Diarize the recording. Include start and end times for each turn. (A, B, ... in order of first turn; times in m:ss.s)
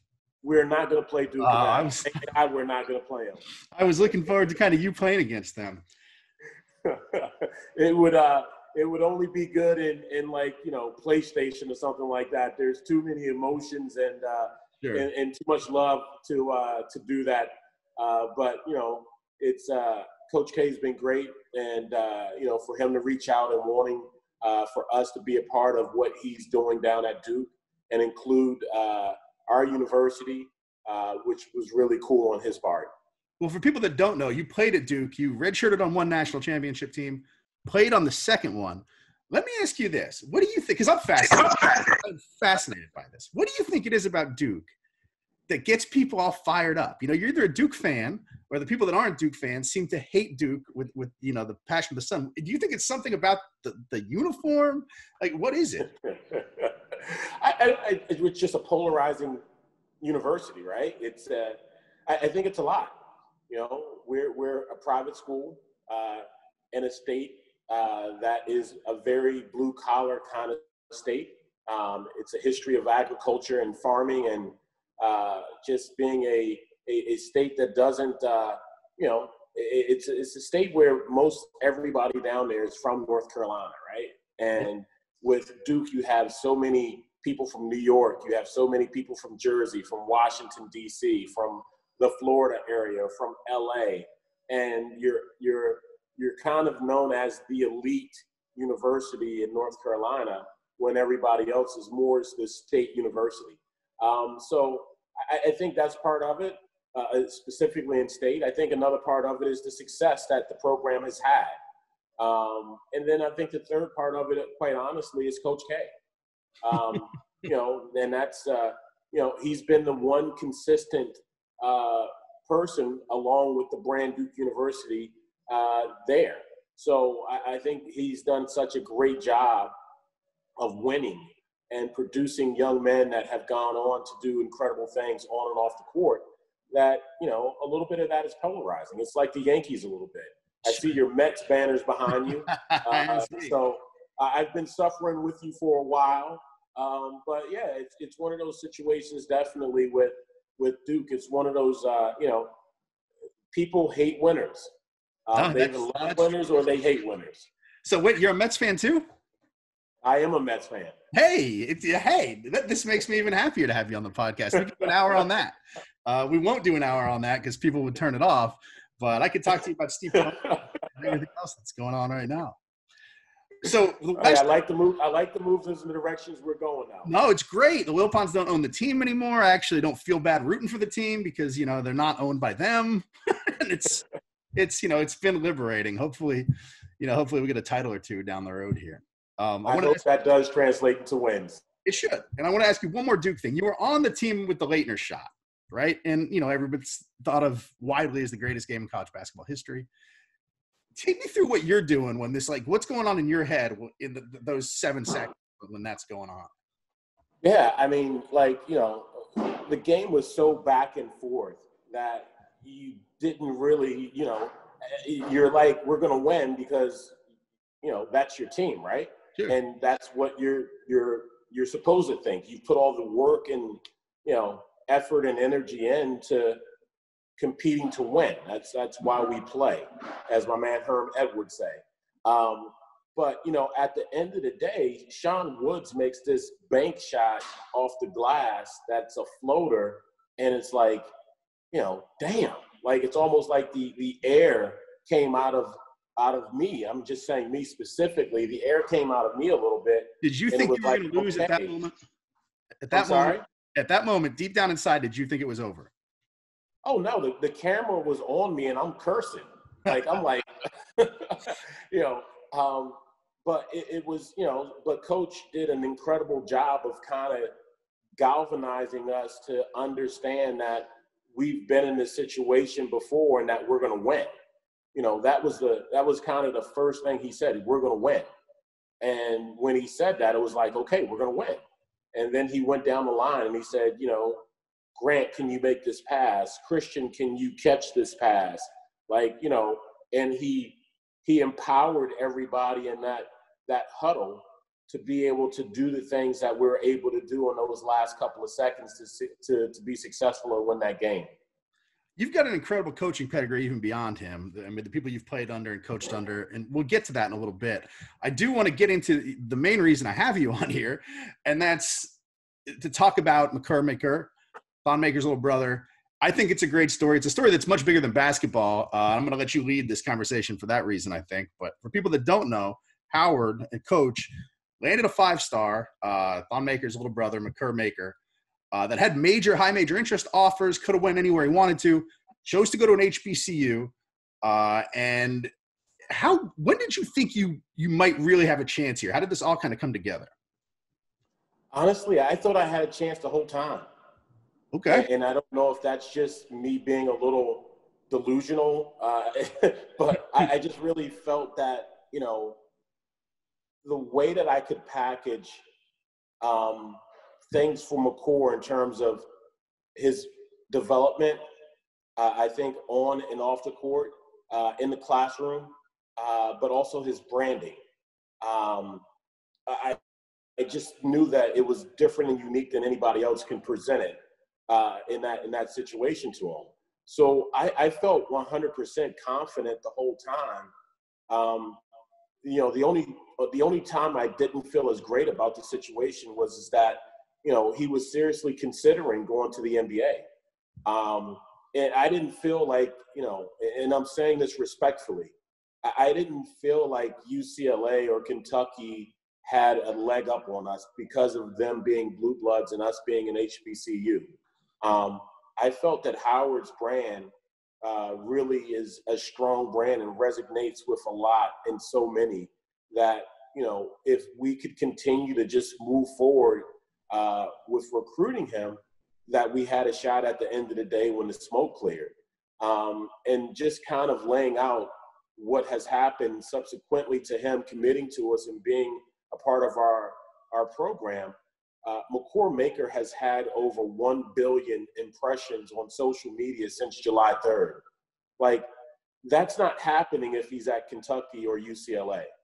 0:00.4-0:03.4 A
0:01.4-0:02.2 B
0:03.7-0:05.8 B
0:06.8-0:32.9 A
0:33.4-0:44.7 B
0:45.5-0:55.9 B
0:56.1-0:59.4 A
1:00.0-1:03.0 A
1:03.5-1:51.6 A
1:52.2-1:55.9 A
1:56.6-2:09.7 A
2:10.6-2:32.5 A
2:22.5-2:23.6 B
2:33.5-2:34.7 A
2:35.3-2:37.5 A
2:35.4-2:36.3 B
2:37.8-2:39.0 B
2:40.0-2:41.0 A
2:41.1-2:52.6 B
2:50.2-2:50.6 A
2:53.6-2:54.5 B
2:54.2-2:57.1 A
2:57.0-3:06.5 B
3:07.0-3:10.0 B
3:09.6-3:11.6 A
3:11.8-3:19.9 B
3:21.0-3:26.5 B
3:27.4-3:37.2 A
3:37.8-3:46.6 A
3:47.4-4:01.1 A
4:01.7-4:11.7 A
4:10.2-4:11.9 B
4:12.8-4:15.9 B
4:12.9-4:13.4 A
4:16.8-4:27.5 A
4:28.2-4:34.3 A
4:35.0-4:38.3 A
4:39.0-4:41.6 A
4:42.1-4:44.4 A
4:45.0-5:01.3 A
5:02.2-5:12.2 B
5:12.7-5:14.3 B
5:14.8-5:28.2 B
5:28.7-5:35.5 B
5:36.1-5:40.3 B
5:41.7-5:43.9 A
5:44.7-5:45.1 B
5:44.9-5:52.6 A
5:53.8-5:55.6 A
5:56.4-5:57.0 A
5:57.5-5:59.2 A
6:00.0-6:01.4 A
6:02.2-6:07.8 A
6:08.4-6:09.0 A
6:09.7-6:10.0 A
6:10.6-6:14.2 A
6:14.7-6:20.7 A
6:21.3-6:21.8 A
6:22.4-6:30.2 A
6:30.9-6:47.3 A
6:47.8-7:17.8 A
7:18.4-7:18.7 A
7:19.2-7:22.3 A